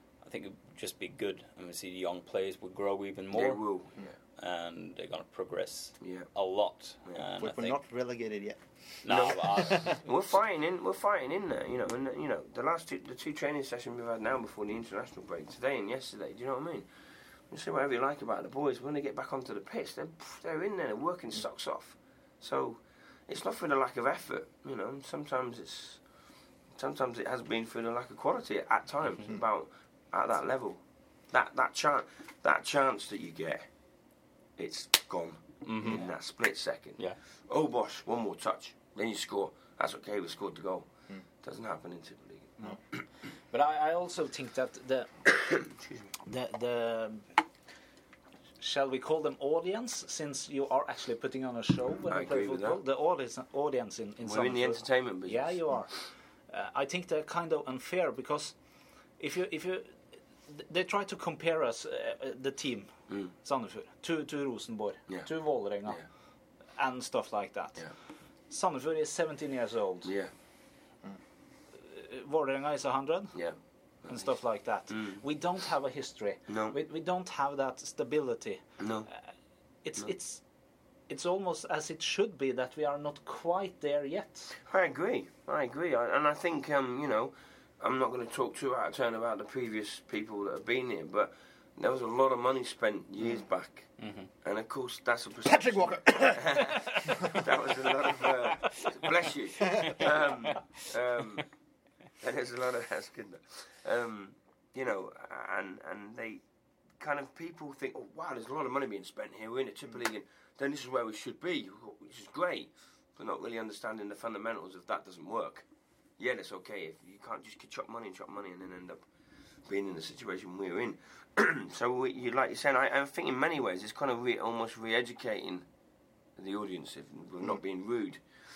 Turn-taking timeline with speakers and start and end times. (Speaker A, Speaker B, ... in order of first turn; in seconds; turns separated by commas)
Speaker A: 0.2-7.8, Speaker B: 3.3-4.2, Speaker B: 6.0-6.3, Speaker C: 7.4-9.9, Speaker A: 9.0-10.0, Speaker B: 9.1-16.9, Speaker B: 17.5-26.0, Speaker B: 26.7-33.7, Speaker B: 34.6-40.9, Speaker A: 35.6-36.1, Speaker B: 41.4-43.0, Speaker D: 43.5-45.4, Speaker B: 45.4-46.1, Speaker D: 46.2-47.2, Speaker D: 48.6-58.6, Speaker B: 52.1-52.8, Speaker B: 54.2-55.9, Speaker D: 59.2-66.0, Speaker D: 66.8-67.8, Speaker D: 68.5-70.1, Speaker B: 70.0-70.3, Speaker D: 71.8-73.3, Speaker B: 73.3-74.3, Speaker D: 74.1-78.6, Speaker B: 74.9-75.2, Speaker B: 76.5-76.8, Speaker B: 78.8-79.1, Speaker D: 79.8-80.4, Speaker D: 81.1-84.5, Speaker B: 84.7-101.5, Speaker A: 94.0-94.3, Speaker C: 95.4-97.3, Speaker C: 99.8-100.1, Speaker B: 102.2-106.4, Speaker B: 107.0-115.6, Speaker B: 116.2-119.0, Speaker B: 119.7-125.7, Speaker B: 126.4-128.2